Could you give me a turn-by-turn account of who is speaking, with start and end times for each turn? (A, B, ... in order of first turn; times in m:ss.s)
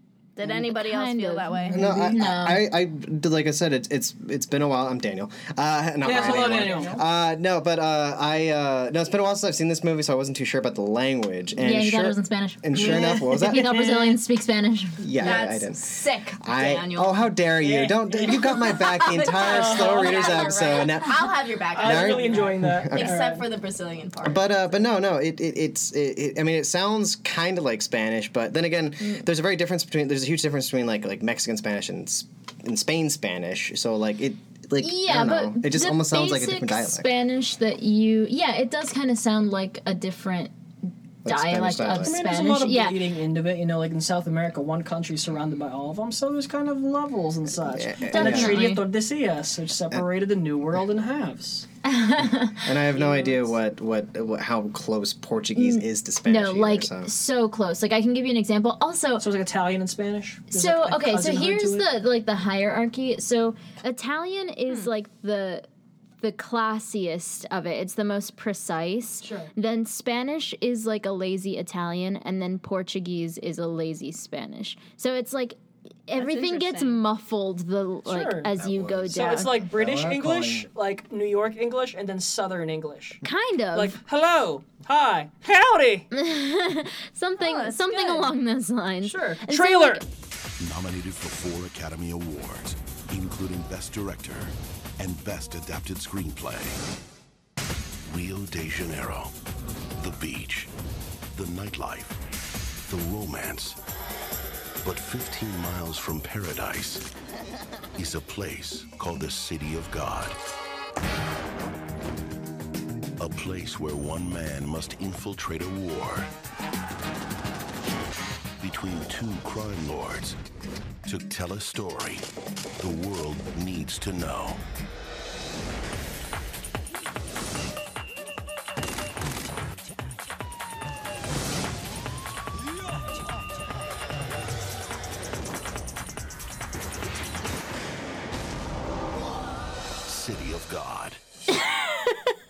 0:00.4-0:01.9 A
0:00.4-0:02.6 B
0:01.7-0:13.7 C
0:01.7-0:02.2 D
0:06.0-0:07.0 D
0:06.1-0:07.0 A
0:11.6-0:15.0 B
0:12.7-0:14.2 D
0:15.0-0:23.2 C
0:15.2-0:17.2 A
0:17.6-0:18.7 D
0:18.6-0:24.8 A
0:19.3-0:20.6 D
0:21.7-0:23.4 D
0:24.2-0:37.1 C
0:34.8-0:40.5 B
0:41.2-0:42.1 C
0:41.2-0:43.0 B
0:42.0-0:51.6 D
0:47.6-0:48.6 C
0:48.1-0:48.8 B
0:48.4-0:48.8 A
0:51.8-0:52.7 B
0:52.6-0:57.1 C
0:52.9-0:53.5 D
0:55.6-0:59.3 B
0:59.2-1:01.8 D
1:00.5-1:05.6 B
1:06.2-1:19.6 B
1:09.2-1:09.5 D
1:16.2-1:17.0 A
1:18.0-1:18.5 D
1:18.6-1:20.7 C
1:19.1-1:23.2 D
1:23.2-1:24.0 B
1:23.7-1:26.1 D
1:26.1-1:30.0 B
1:27.4-1:28.3 A
1:29.0-1:30.0 D
1:30.6-1:36.8 E
1:38.0-1:39.3 E
1:40.0-1:40.7 E
1:41.3-1:42.2 E
1:42.8-1:43.8 E
1:44.8-1:47.0 E
1:47.9-1:50.4 E
1:53.2-1:56.3 E
1:58.6-2:00.4 E
2:01.0-2:02.2 E
2:02.8-2:04.6 E
2:20.0-2:21.2 E